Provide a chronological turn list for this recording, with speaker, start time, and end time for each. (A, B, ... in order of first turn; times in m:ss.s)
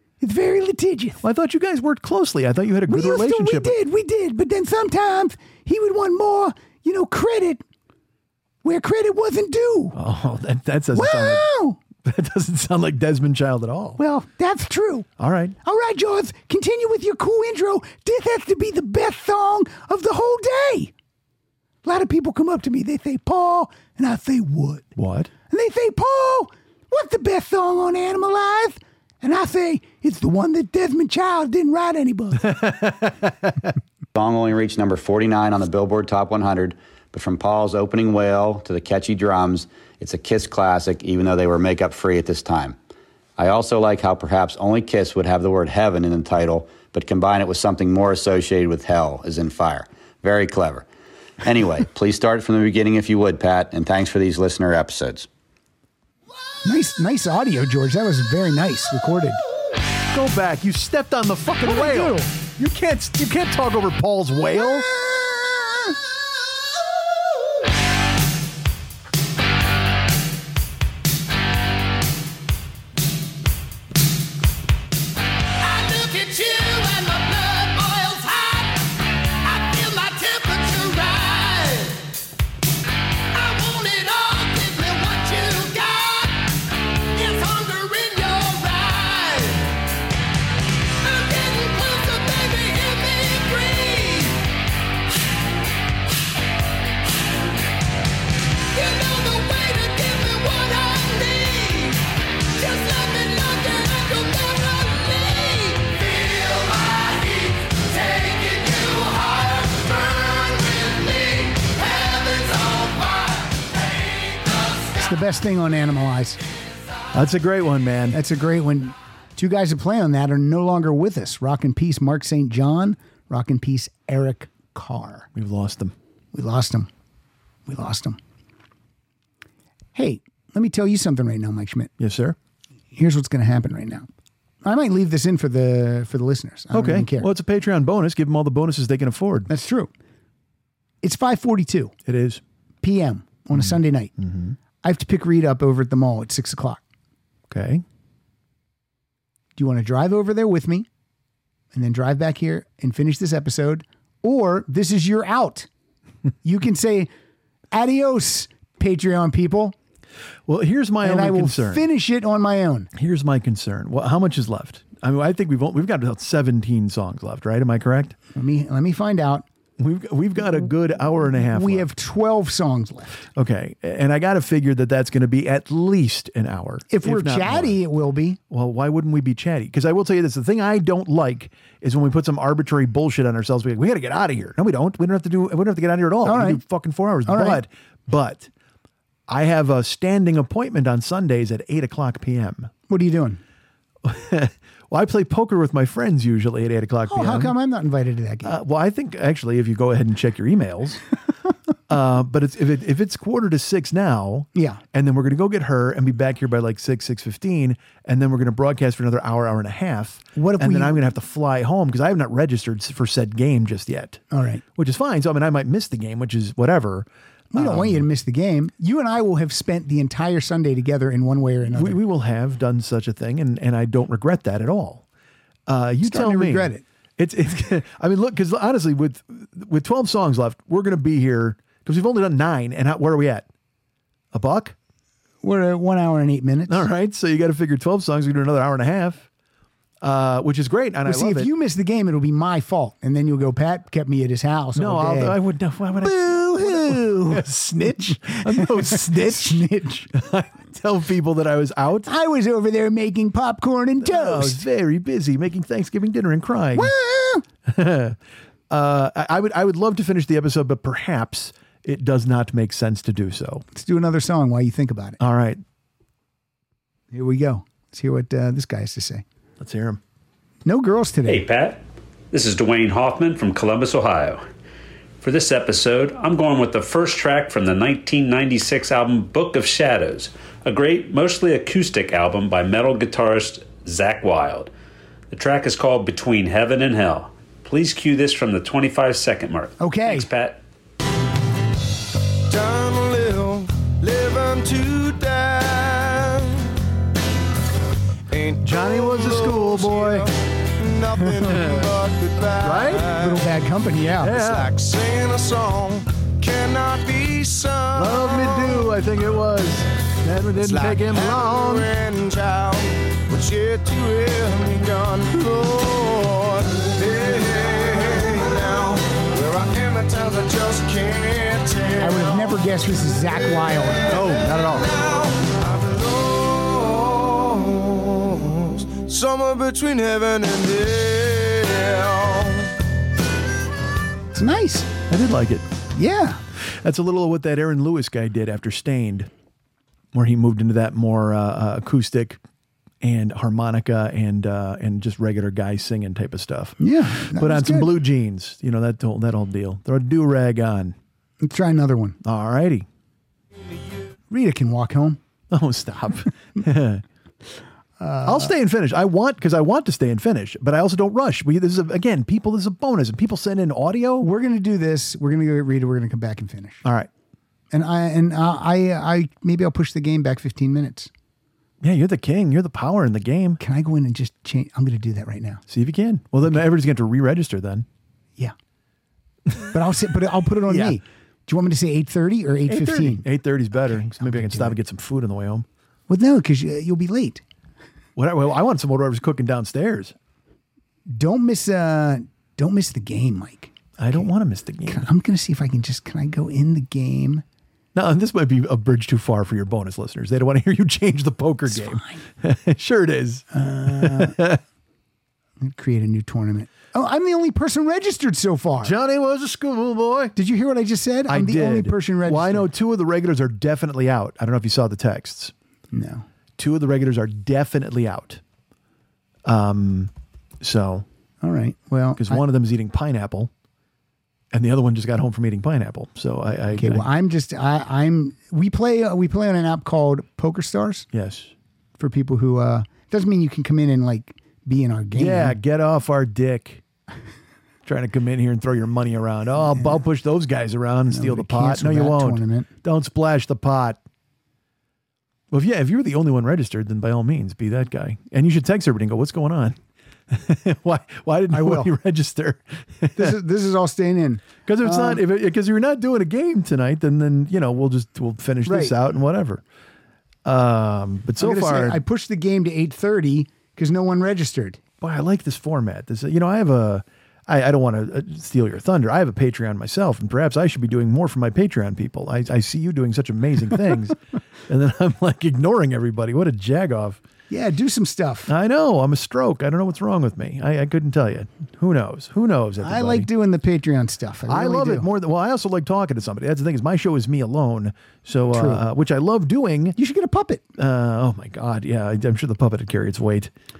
0:00.2-0:01.2 A
0:01.2-0:03.7 B
0:02.9-0:07.6 A
0:08.6-0:10.0 A
0:09.9-0:11.4 B
0:10.9-0:11.8 A
0:12.0-0:14.0 B
0:14.0-0:15.1 A
0:15.2-0:15.6 B
0:15.6-0:20.9 A
0:21.8-0:24.9 A
0:25.0-0:25.3 B
0:25.5-0:32.4 A
0:32.4-0:33.7 B
0:34.2-0:42.8 C
0:43.4-0:50.9 C
0:51.4-0:55.3 C
0:56.6-0:59.4 A
1:00.1-1:04.9 B
1:01.6-1:02.3 A
1:05.5-1:05.8 A
1:15.6-1:18.8 D
1:19.4-1:22.1 D
1:23.3-1:26.5 D
1:27.1-1:29.8 D
1:31.0-1:34.5 D
1:38.7-1:42.0 D
1:42.6-1:53.6 D
1:55.0-1:56.4 A
1:57.1-1:58.2 B
1:58.1-2:05.3 A
2:05.4-2:05.9 B
2:06.3-2:06.9 A
2:07.7-2:08.2 A
2:09.9-2:11.9 A
2:12.0-2:12.4 B
2:12.9-2:14.1 A
2:14.6-2:17.3 A
2:16.7-2:19.5 B
2:19.5-2:19.9 A
2:21.0-2:21.9 A
2:22.1-2:22.4 B
2:22.8-2:24.1 A
2:23.5-2:24.6 B
2:24.8-2:26.8 A
2:27.5-2:27.8 B
2:29.6-2:30.9 A
2:31.7-2:35.7 A
2:36.4-2:37.1 A
2:37.7-2:39.8 A
2:40.5-2:41.8 B
2:41.0-2:42.9 A
2:43.0-2:48.2 B
2:48.3-2:49.5 A
2:49.8-2:51.9 B
2:51.5-2:53.2 A
2:53.4-2:57.8 B
2:56.9-2:58.4 A
2:58.5-3:08.5 B
3:06.2-3:06.6 A
3:07.3-3:07.6 A
3:09.3-3:12.7 B
3:12.9-3:13.4 A
3:14.0-3:17.5 B
3:17.1-3:18.6 A
3:18.4-3:21.0 B
3:21.9-3:34.2 B
3:24.6-3:24.8 A
3:30.4-3:31.0 A
3:34.3-3:34.6 A
3:34.8-3:38.0 B
3:37.5-3:42.0 A
3:41.7-3:45.0 B
3:45.7-3:53.5 B
3:46.0-3:46.8 A
3:54.3-3:54.8 B
3:55.4-3:56.9 A
3:56.7-3:59.3 B
4:00.0-4:01.5 B
4:01.1-4:05.4 A
4:04.8-4:12.1 B
4:06.0-4:10.1 A
4:12.1-4:14.6 A
4:14.0-4:16.9 B
4:16.8-4:17.4 A
4:17.7-4:18.2 B
4:18.7-4:23.6 B
4:23.7-4:25.2 A
4:25.2-4:25.6 B
4:27.1-4:29.2 A
4:29.6-4:30.0 B
4:30.6-4:31.5 A
4:31.3-4:31.8 E
4:32.3-4:34.4 E
4:35.2-4:44.7 E
4:45.3-4:50.6 E
4:49.8-4:50.3 A
4:52.5-4:56.3 F
4:58.6-5:00.3 B
5:01.2-5:01.8 A
5:01.5-5:01.9 B
5:02.2-5:02.7 F
5:02.6-5:03.2 B
5:03.1-5:04.4 A
5:04.2-5:04.7 B
5:04.7-5:07.8 F
5:07.9-5:11.9 B
5:12.0-5:12.8 F
5:13.3-5:16.4 F
5:17.0-5:21.9 F
5:22.0-5:24.2 A
5:24.1-5:25.0 B
5:26.6-5:27.0 F
5:28.8-5:32.3 F
5:34.3-5:34.9 A
5:35.1-5:35.6 B
5:36.0-5:36.4 A
5:36.7-5:39.3 B
5:40.1-5:42.4 B
5:43.0-5:46.8 B
5:46.8-5:47.9 A
5:47.3-5:50.9 B
5:51.4-5:52.2 A
5:52.2-5:52.9 B
5:54.3-5:55.2 A
5:55.5-5:57.0 B
5:58.0-5:58.5 A
5:58.3-6:04.3 B
6:04.2-6:06.8 A
6:06.8-6:07.1 B
6:07.7-6:11.1 A
6:11.8-6:13.6 B
6:13.6-6:15.6 A
6:15.7-6:17.9 B
6:19.7-6:24.8 A
6:20.7-6:21.0 B
6:22.7-6:25.7 B
6:26.1-6:27.4 A
6:28.2-6:30.1 B
6:31.1-6:34.3 A
6:34.0-6:35.1 B
6:34.9-6:37.4 A
6:38.0-6:44.6 B
6:41.7-6:42.2 A
6:43.5-6:44.4 A
6:45.6-6:49.0 A
6:48.8-6:50.3 B
6:50.4-6:52.7 A
6:51.3-6:55.5 B
6:55.9-6:56.3 A
6:56.6-6:58.4 B
6:59.5-7:01.0 B
7:01.4-7:02.4 A
7:02.2-7:03.5 B
7:04.5-7:07.1 B
7:06.7-7:11.1 A
7:11.1-7:11.5 B
7:12.0-7:15.6 A
7:15.2-7:16.8 B
7:17.9-7:24.0 B
7:19.6-7:20.0 A
7:21.1-7:22.7 A
7:25.5-7:29.8 B
7:30.3-7:33.4 B
7:31.5-7:31.9 A
7:33.2-7:35.2 A
7:34.6-7:39.6 B
7:38.6-7:39.0 A
7:40.4-7:42.0 B
7:41.4-7:44.8 A
7:45.0-7:54.2 B
7:54.7-7:57.2 B
7:57.5-7:58.5 A
7:58.5-8:03.3 B
8:02.8-8:05.1 A
8:04.5-8:10.0 B
8:08.5-8:08.8 A
8:10.0-8:10.7 A
8:10.8-8:13.5 B